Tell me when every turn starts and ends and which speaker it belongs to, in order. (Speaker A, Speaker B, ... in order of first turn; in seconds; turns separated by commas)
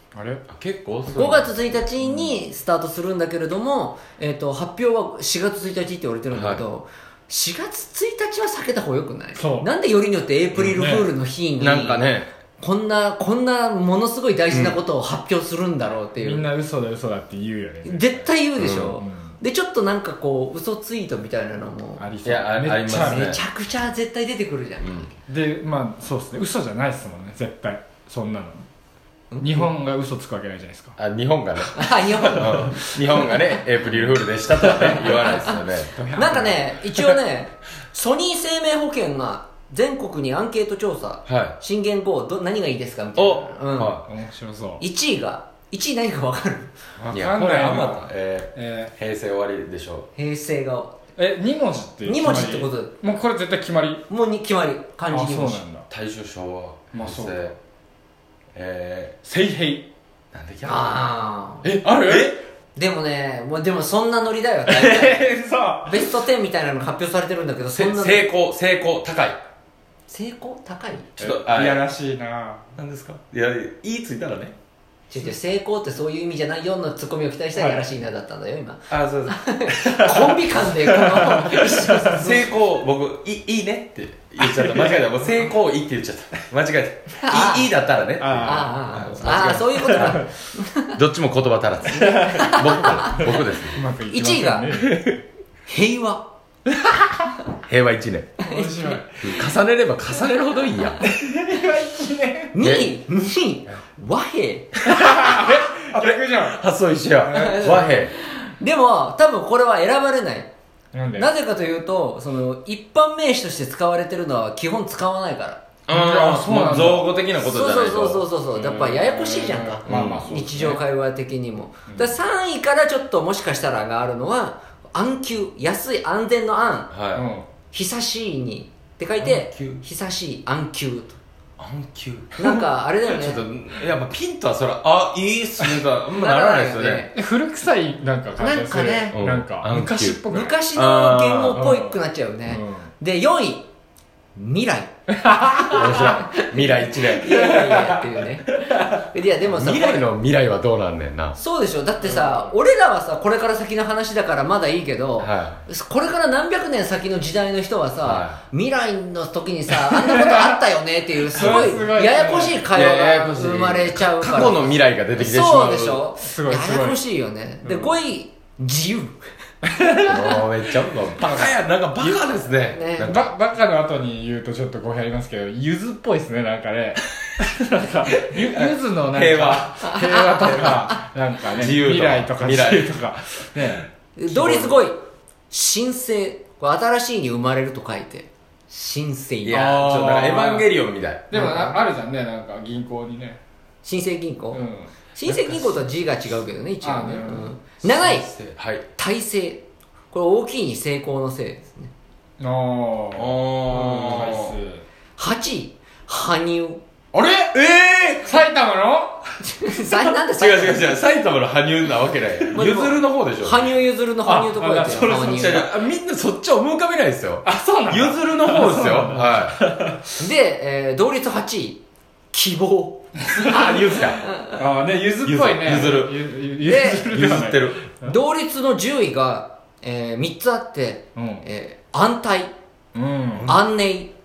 Speaker A: 0.1-0.4, Speaker B: 0.5-2.3, Speaker C: 1.1-16.5, Speaker B: 6.3-6.6, Speaker A: 9.3-9.7, Speaker A: 10.7-11.1, Speaker B: 11.6-12.3, Speaker B: 14.5-14.8, Speaker A: 16.2-18.3, Speaker C: 17.8-22.0, Speaker B: 18.6-19.0, Speaker A: 19.0-19.3, Speaker A: 22.0-23.3, Speaker B: 22.2-23.4, Speaker C: 22.9-25.1, Speaker B: 24.8-25.1, Speaker A: 25.3-28.6, Speaker A: 29.4-30.9, Speaker B: 31.0-35.9, Speaker C: 31.7-32.9, Speaker A: 34.6-36.6, Speaker C: 35.0-35.6, Speaker C: 36.1-44.0, Speaker B: 41.2-41.6, Speaker B: 43.1-44.0, Speaker A: 44.0-44.8, Speaker C: 44.8-46.7, Speaker A: 47.0-48.9, Speaker B: 47.1-50.1, Speaker C: 50.1-50.9, Speaker A: 51.2-54.0, Speaker C: 52.0-53.0, Speaker C: 54.1-55.6, Speaker A: 55.1-55.9, Speaker B: 55.9-57.5, Speaker A: 56.9-57.5, Speaker B: 58.5-59.2, Speaker A: 59.2-59.9, Speaker B: 60.3-61.0, Speaker C: 60.6-61.7, Speaker A: 61.6-62.3, Speaker B: 61.9-62.4, Speaker C: 62.8-65.3, Speaker A: 64.7-66.0, Speaker C: 65.8-68.3, Speaker B: 67.7-69.4, Speaker C: 70.1-71.1, Speaker B: 71.2-71.8, Speaker A: 71.2-72.6, Speaker B: 72.8-74.5, Speaker C: 75.1-82.5, Speaker A: 77.5-77.8, Speaker B: 78.9-80.3, Speaker A: 81.0-82.2, Speaker B: 82.1-90.2, Speaker A: 84.4-85.0, Speaker C: 87.2-87.7, Speaker A: 88.2-90.2, Speaker C: 88.4-91.0, Speaker B: 90.9-93.8, Speaker A: 91.9-95.0, Speaker C: 92.1-93.2, Speaker C: 94.1-94.7, Speaker B: 94.8-95.2, Speaker C: 95.7-96.2, Speaker A: 96.7-97.1, Speaker B: 97.7-98.4, Speaker A: 98.4-99.4, Speaker C: 98.4-99.0, Speaker B: 99.2-101.0, Speaker A: 101.0-102.5, Speaker C: 102.5-104.8, Speaker B: 102.6-102.9, Speaker B: 104.8-108.1, Speaker A: 104.9-106.6, Speaker A: 107.2-107.7, Speaker C: 107.3-110.5, Speaker A: 110.9-111.3, Speaker C: 111.1-115.6, Speaker B: 115.9-118.2, Speaker A: 115.9-117.1, Speaker C: 117.4-126.9, Speaker A: 118.5-120.8, Speaker B: 119.9-120.3, Speaker A: 121.9-122.2, Speaker B: 126.9-127.2, Speaker A: 127.1-127.5, Speaker C: 127.7-131.2, Speaker B: 129.2-129.8, Speaker B: 131.6-137.1, Speaker C: 132.4-133.4, Speaker C: 136.2-137.2, Speaker A: 137.1-140.5, Speaker C: 138.4-139.1, Speaker B: 139.1-141.6, Speaker C: 140.3-143.7, Speaker A: 141.6-142.9, Speaker C: 144.3-144.9, Speaker A: 145.2-146.1, Speaker C: 145.6-150.1, Speaker B: 145.7-147.9, Speaker A: 147.4-148.0, Speaker A: 148.5-148.9, Speaker B: 149.5-151.4, Speaker C: 151.3-169.2, Speaker A: 152.0-152.5, Speaker B: 155.2-155.6, Speaker B: 158.0-158.4, Speaker A: 159.8-160.5, Speaker A: 161.3-162.8, Speaker B: 161.4-161.6, Speaker B: 162.7-166.0, Speaker A: 166.2-167.0, Speaker A: 167.6-167.9, Speaker A: 169.6-170.4, Speaker B: 170.1-173.3, Speaker A: 171.2-172.0, Speaker C: 172.7-173.2, Speaker A: 173.0-184.8, Speaker B: 178.2-179.8, Speaker C: 179.8-180.9, Speaker B: 181.5-182.9, Speaker C: 184.2-185.0, Speaker C: 185.5-190.0, Speaker B: 189.4-191.3, Speaker A: 189.6-190.7, Speaker A: 191.3-193.4, Speaker C: 191.3-191.8, Speaker C: 193.8-194.6, Speaker A: 194.5-194.9, Speaker C: 195.2-198.3, Speaker B: 195.2-196.0, Speaker A: 196.8-197.5, Speaker B: 197.8-198.8, Speaker C: 199.0-201.9, Speaker A: 202.4-204.8, Speaker B: 203.1-204.6, Speaker C: 205.2-206.8, Speaker A: 207.1-207.6, Speaker B: 207.5-208.2, Speaker A: 208.2-209.2, Speaker C: 209.4-211.0, Speaker B: 210.3-213.7, Speaker C: 212.5-215.7, Speaker A: 214.2-215.7, Speaker B: 215.0-219.6, Speaker A: 217.4-220.0, Speaker C: 220.2-224.6, Speaker A: 223.3-223.6, Speaker B: 223.4-224.2, Speaker A: 224.6-228.2, Speaker B: 225.2-226.2, Speaker C: 226.6-227.1, Speaker B: 227.0-227.8, Speaker C: 228.0-232.5, Speaker A: 231.2-231.4, Speaker A: 232.9-233.6, Speaker C: 233.4-234.1